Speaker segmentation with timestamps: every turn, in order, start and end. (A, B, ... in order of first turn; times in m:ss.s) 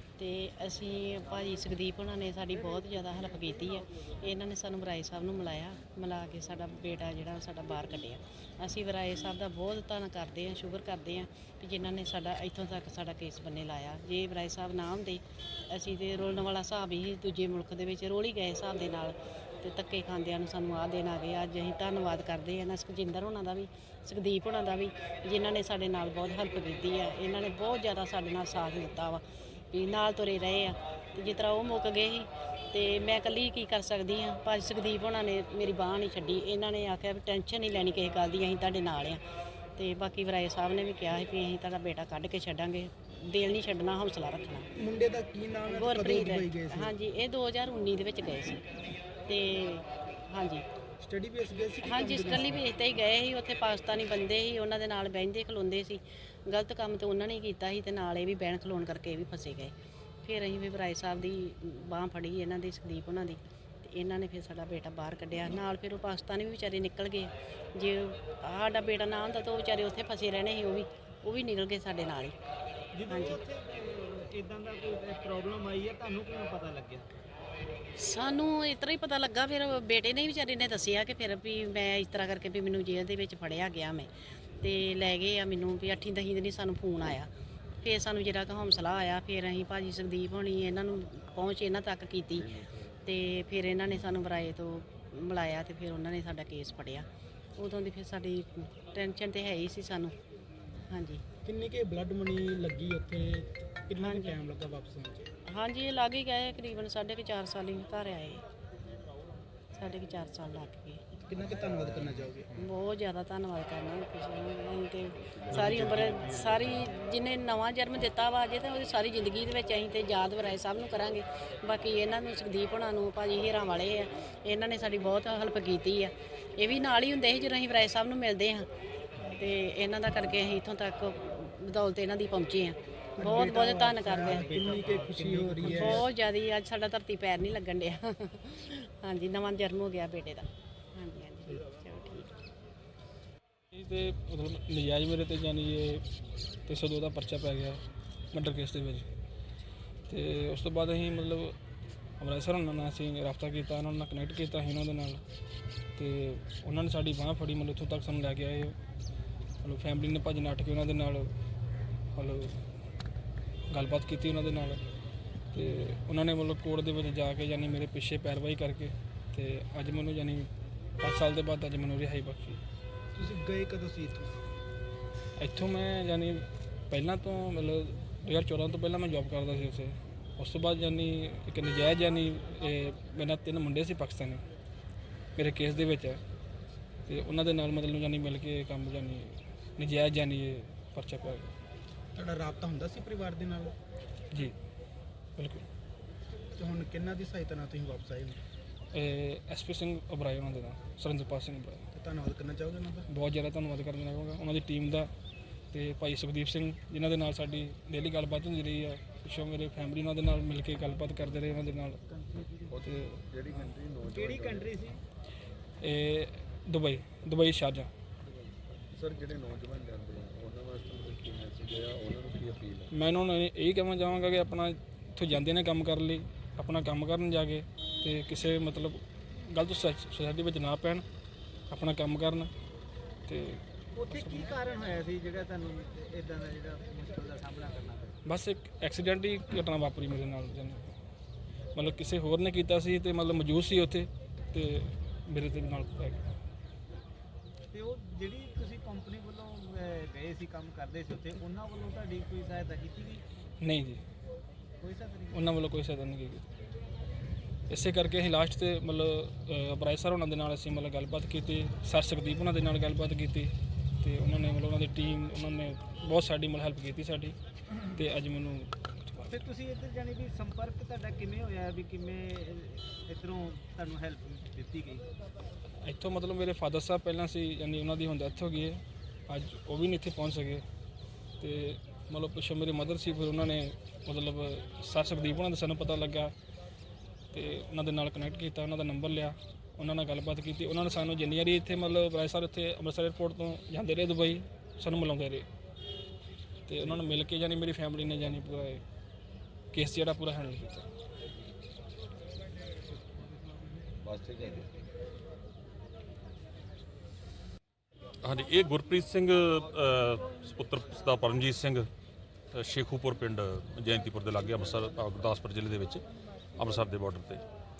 0:00.2-0:39.2 A
0:39.8-0:44.7 A
0:44.8-0:46.9 B
0:45.7-0:48.6 A
0:49.3-0:50.6 A
0:51.0-0:52.6 B
0:51.8-0:59.7 A
1:00.2-1:12.4 A
1:12.9-1:17.1 C
1:13.1-1:13.4 A
1:18.0-1:24.1 A
1:24.6-1:27.3 A
1:27.8-1:40.1 A
1:40.9-1:41.2 A
1:41.4-1:45.3 B
1:44.0-1:44.4 A
1:45.5-1:48.4 A
1:49.7-1:51.0 A
1:51.1-1:52.6 B
1:52.5-2:08.7 A
1:55.6-1:56.6 D
2:09.3-2:22.4 A
2:13.2-2:16.1 B
2:14.4-2:15.9 C
2:23.7-2:26.0 E
2:26.7-2:27.8 E
2:28.3-2:29.0 E
2:30.1-2:31.5 E
2:32.2-2:35.2 E
2:36.0-2:38.7 E
2:39.6-2:41.2 E
2:42.2-2:42.5 E
2:43.7-2:44.8 E
2:45.5-2:50.4 E
2:51.0-2:52.6 E
2:53.2-2:54.3 B
2:55.4-2:56.4 E
2:56.9-3:04.4 E
3:05.4-3:06.2 E
3:07.1-3:09.2 E
3:09.8-3:11.5 E
3:12.2-3:13.7 B
3:15.4-3:15.6 E
3:16.6-3:18.4 B
3:18.9-3:21.8 E
3:21.9-3:23.1 B
3:23.2-3:25.1 E
3:25.7-3:32.0 E
3:32.4-3:32.7 C
3:32.8-3:33.2 E
3:33.2-3:33.9 F
3:34.0-3:35.0 C
3:35.8-3:37.9 E
3:39.0-3:39.7 F
3:41.2-3:41.8 F
3:42.4-3:42.8 F
3:42.9-3:51.0 E
3:51.7-3:52.5 E
3:53.3-3:53.6 E
3:54.0-3:58.2 C
3:58.3-4:00.8 E
4:01.8-4:06.3 E
4:07.7-4:13.2 C
4:13.6-4:14.0 E
4:14.8-4:15.6 C
4:15.3-4:16.4 E
4:17.7-4:27.4 E
4:27.9-4:29.3 E
4:29.3-4:35.0 C
4:35.8-4:38.8 E
4:39.3-4:40.6 E
4:41.4-4:46.3 E
4:47.3-4:55.4 E
4:56.7-4:58.8 E
4:59.7-5:00.8 E
5:08.2-5:11.8 D
5:12.5-5:16.0 D
5:16.6-5:17.4 D